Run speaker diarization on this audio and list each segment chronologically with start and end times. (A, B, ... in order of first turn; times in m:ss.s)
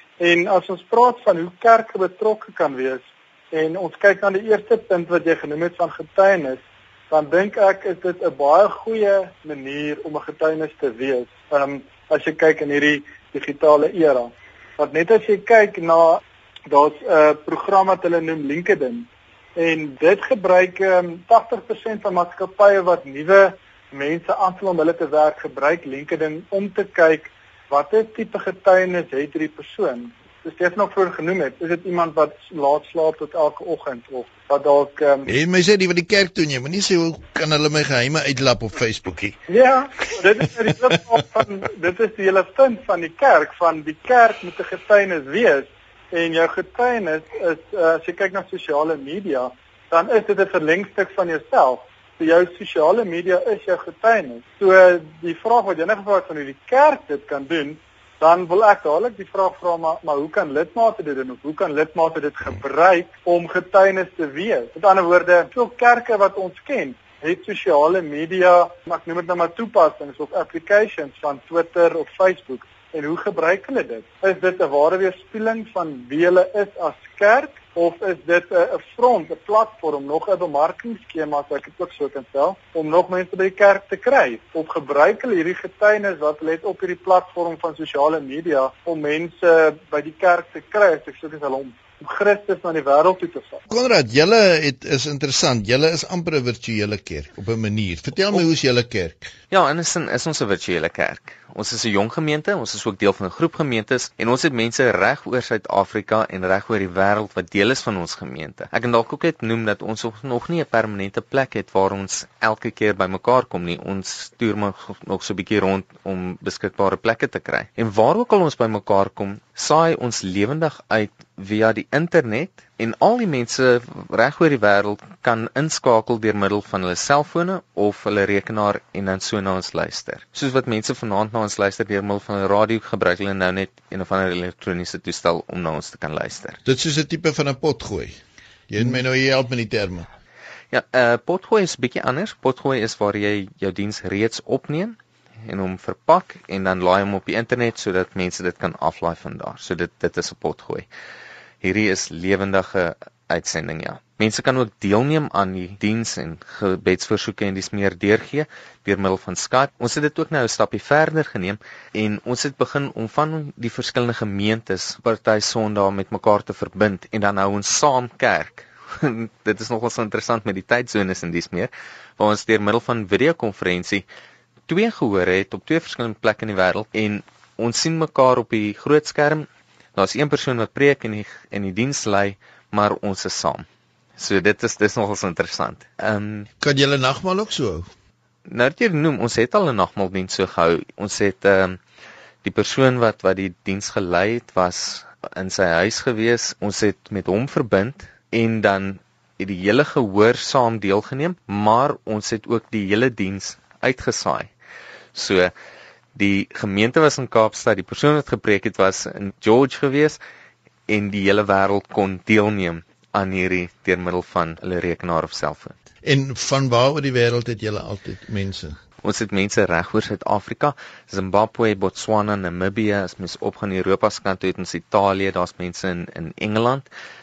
0:00.2-0:35.3 A
0:35.2-0:39.4 B
0:39.5-1:33.6 A
1:33.7-1:39.3 B
1:39.5-2:16.6 C
2:16.6-2:18.2 B
2:18.7-2:20.1 B
2:20.7-2:30.9 C
2:31.6-2:54.0 C
2:54.7-3:03.6 C
3:04.2-3:06.5 C
3:06.6-3:07.9 B
3:08.5-3:11.8 C
3:12.4-3:24.5 C
3:25.1-3:25.5 C
3:26.1-3:30.2 C
3:30.9-3:35.7 C
3:36.0-3:38.8 B
3:39.0-3:46.9 C